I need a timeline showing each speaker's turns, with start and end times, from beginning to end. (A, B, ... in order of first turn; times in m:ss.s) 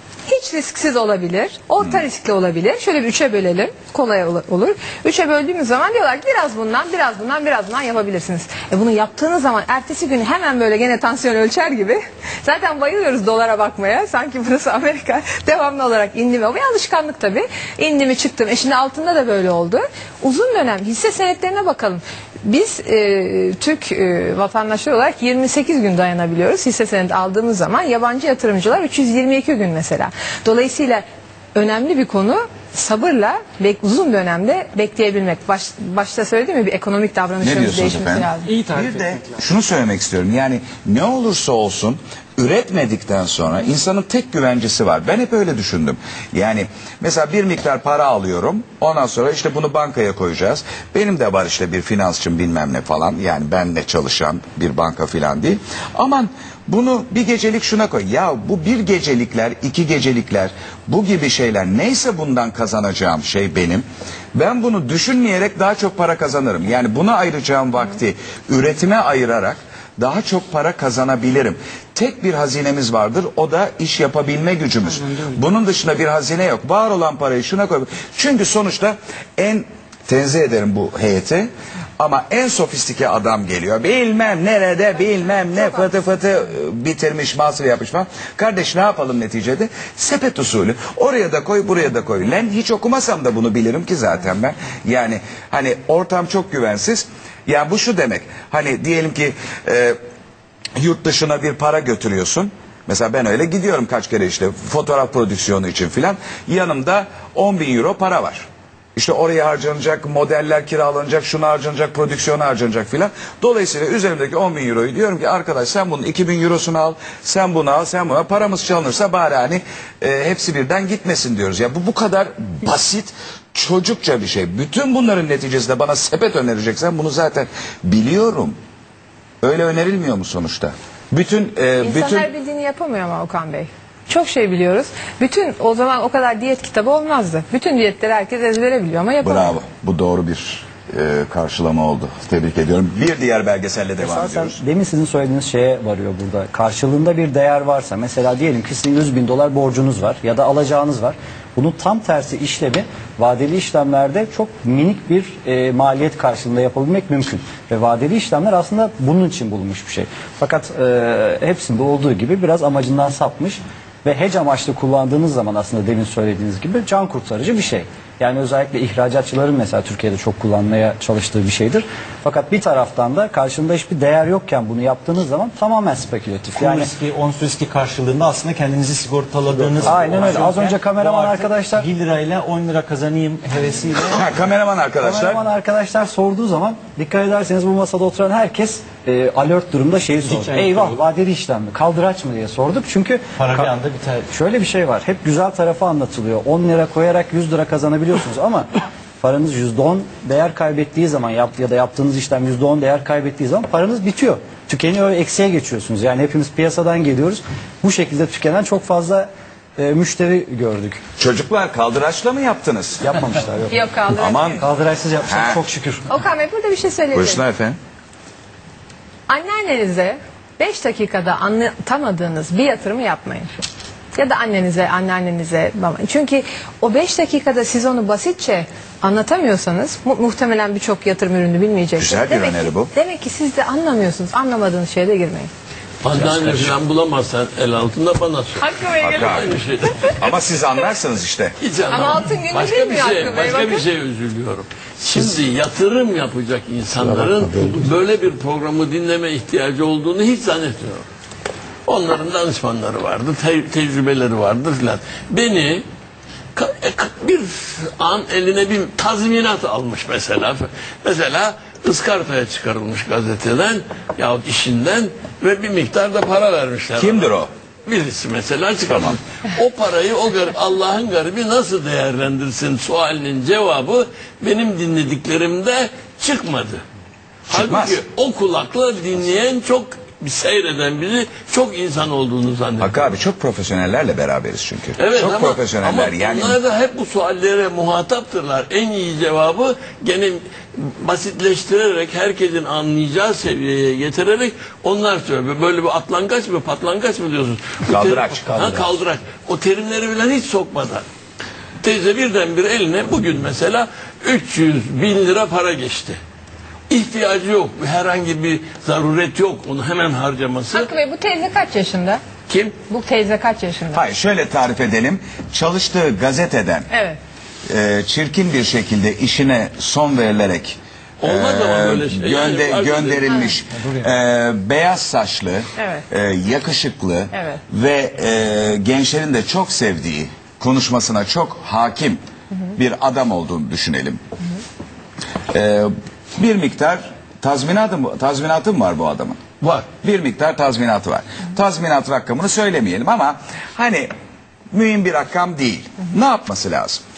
0:00.3-0:38.5 A
0:37.4-1:40.0 B
1:40.8-2:08.6 B
2:09.4-2:12.3 B
2:11.8-2:19.6 A
2:19.2-2:24.6 B
2:24.0-2:56.9 C
2:56.5-3:04.3 D
2:59.8-3:01.9 C
3:04.0-3:05.4 B
3:05.0-3:13.8 C
3:10.2-3:11.0 D
3:13.4-3:14.3 D
3:14.3-3:18.7 C
3:19.2-3:31.0 C
3:31.2-3:33.0 B
3:33.0-3:33.8 C
3:33.7-3:34.6 A
3:34.1-3:34.6 B
3:34.6-3:36.0 C
3:35.3-3:35.6 B
3:36.1-3:37.4 A
3:37.1-3:37.8 B
3:39.3-3:43.5 A
3:44.1-3:55.5 A
3:52.0-3:52.9 B
3:56.0-3:58.6 E
3:56.1-3:56.7 B
3:58.6-4:00.1 A
3:59.0-3:59.5 B
3:59.2-4:00.1 E
4:00.1-4:01.6 B
4:01.6-4:11.1 E
4:01.9-4:03.8 A
4:11.8-4:15.8 E
4:16.5-4:36.8 E
4:26.9-4:27.5 B
4:28.9-4:29.2 B
4:37.5-4:43.0 E
4:37.5-4:38.0 B
4:42.8-4:46.6 B
4:45.0-5:01.0 E
4:57.9-4:58.9 B
5:01.8-5:06.2 E
5:06.9-5:10.9 E
5:10.7-5:12.2 A
5:12.5-5:12.8 E
5:12.9-5:14.0 A
5:13.9-5:16.9 B
5:16.9-5:17.2 A
5:17.7-5:32.2 B
5:21.2-5:23.3 E
5:23.3-5:23.5 A
5:25.8-5:26.0 A
5:27.3-5:27.6 A
5:32.8-5:34.2 B
5:35.5-5:39.4 B
5:39.6-5:39.9 E
5:40.0-5:44.1 B
5:44.7-5:47.0 B